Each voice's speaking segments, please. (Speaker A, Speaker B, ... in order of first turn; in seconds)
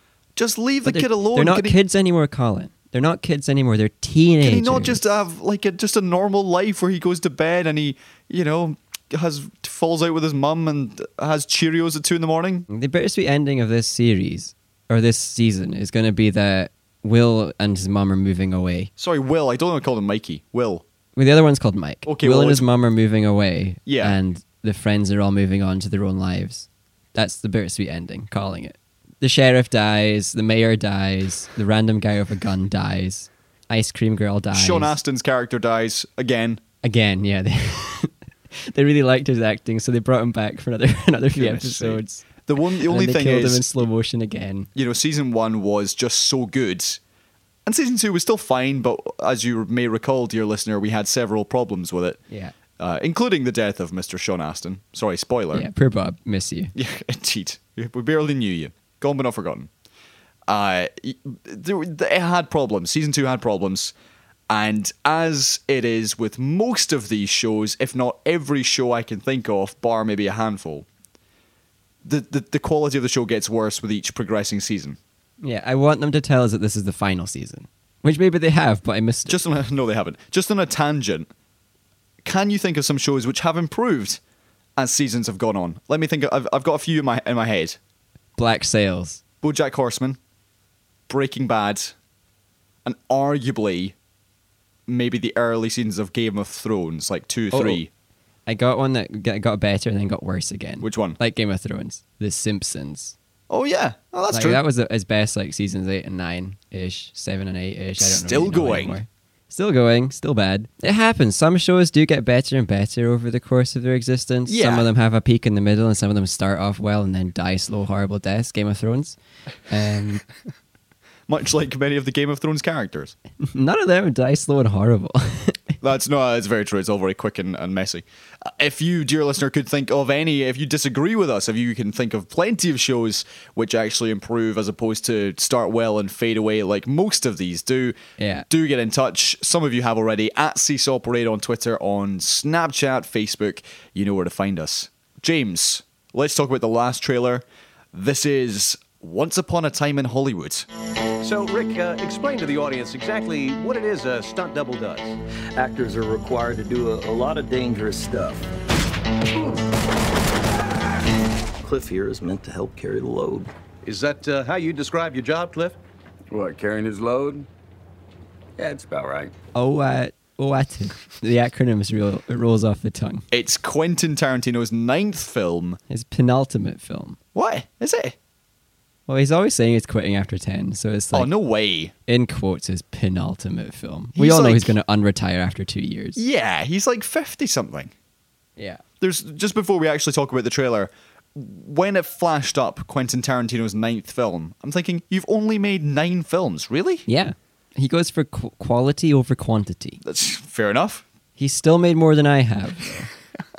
Speaker A: 0.3-1.8, 4.4-12.7, 19.0-20.8, 22.0-22.6, 23.9-24.2, 34.5-36.6, 41.3-43.7, 44.8-47.0, 47.6-52.2, 52.8-55.7, 56.8-59.7, 60.5-63.9, 64.5-70.8, 72.0-75.0, 79.3-81.3, 82.2-84.2, 84.8-87.8, 89.4-90.2, 91.1-92.0, 92.8-94.0, 94.9-97.9, 100.8-101.2, 103.5-104.6, 108.0-109.0, 114.5-114.9, 121.3-123.1, 125.8-138.0, 138.5-150.7, 173.3-175.8, 177.3-178.2, 181.1-181.9, 184.2-184.8, 186.2-187.9, 189.0-197.1, 200.0-201.1
Speaker B: 0.8-5.0, 12.7-18.9, 21.1-35.0, 36.8-42.2, 42.8-44.7, 55.5-56.7, 75.4-79.4, 88.4-89.2, 97.5-97.8, 98.5-103.1, 104.3-120.2, 123.4-125.8, 138.2-138.5, 169.5-173.2, 175.9-177.2, 179.1-181.3, 182.1-186.2, 188.6-188.8, 197.1-200.0, 201.4-203.1
Speaker C: 151.2-155.2, 163.8-165.8
Speaker D: 155.6-158.5, 161.6-163.5
Speaker E: 166.3-167.5, 168.6-169.3